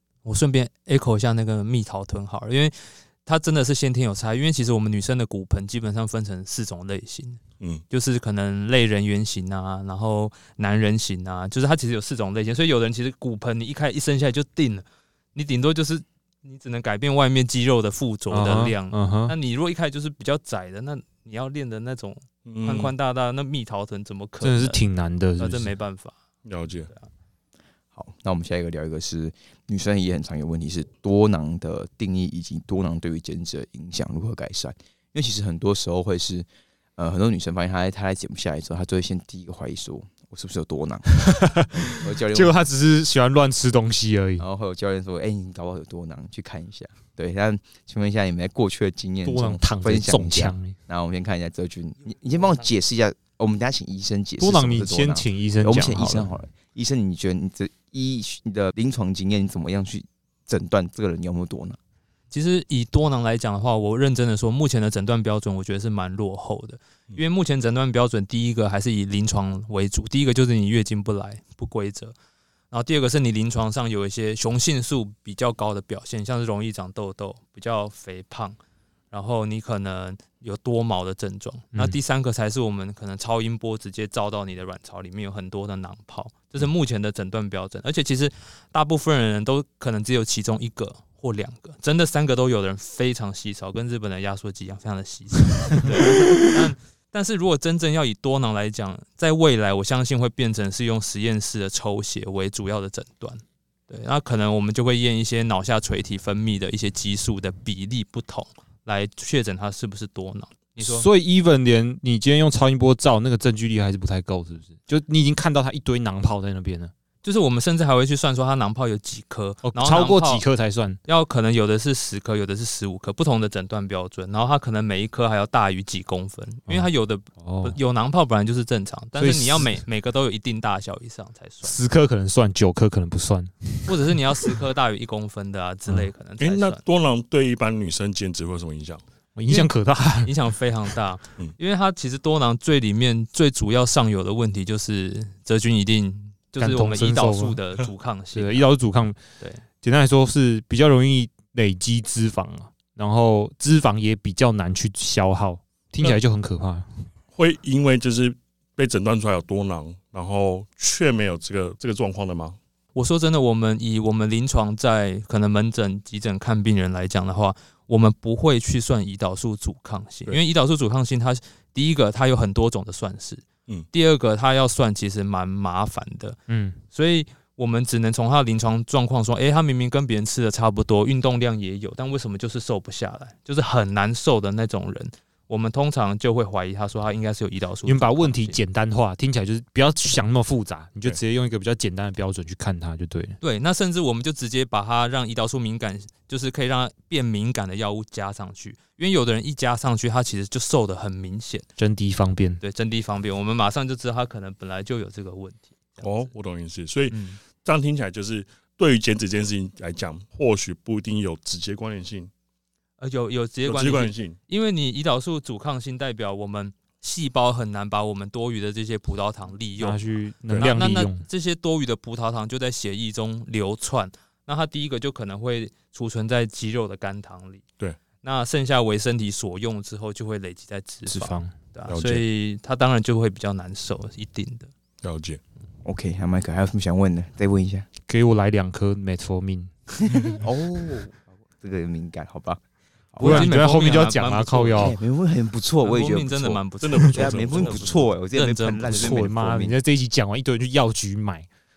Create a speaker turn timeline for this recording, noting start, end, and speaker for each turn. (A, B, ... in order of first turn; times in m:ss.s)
0:00.2-0:24.8 A
0:18.3-0:19.4 B
0:22.5-0:22.9 C
0:24.4-0:25.7 B
0:25.4-0:26.2 A
0:26.4-0:26.9 C
0:27.9-0:42.6 D
0:41.2-0:44.4 B
0:44.4-1:01.8 D
0:49.2-0:50.8 B
0:54.4-0:56.3 B
1:02.3-1:12.2 A
1:12.7-1:18.6 A
1:19.1-1:51.1 A
1:50.8-1:56.9 B
1:57.2-2:00.4 A
1:59.6-2:01.0 B
2:01.1-2:11.8 A
2:07.4-2:07.8 B
2:09.2-2:09.8 B
2:11.6-2:14.0 B
2:13.9-2:16.8 A
2:16.4-2:19.0 C
2:19.4-2:20.3 B
2:20.2-2:28.7 A
2:26.6-2:27.6 B
2:28.3-2:29.2 B
2:29.8-2:36.9 B
2:37.3-2:42.6 C
2:43.0-2:56.4 A
2:56.5-2:56.8 B
2:56.9-3:08.6 A
3:07.9-3:13.4 B
3:13.4-3:21.7 A
3:21.8-3:22.6 B
3:22.6-3:26.3 A
3:26.0-3:32.3 C
3:27.1-3:27.4 A
3:33.0-3:40.0 A
3:33.6-3:34.4 C
3:39.8-3:41.2 B
3:40.5-3:40.8 C
3:40.6-3:47.6 A
3:48.2-3:54.7 A
3:51.1-3:51.5 B
3:51.9-3:52.2 C
3:55.0-3:55.4 C
3:55.8-3:57.9 D
3:58.1-3:59.7 B
4:00.1-4:02.6 D
4:03.1-4:03.5 D
4:03.2-4:04.9 A
4:03.2-4:05.0 B
4:04.8-4:09.8 D
4:05.8-4:09.2 A
4:06.8-4:08.0 C
4:08.9-4:11.5 B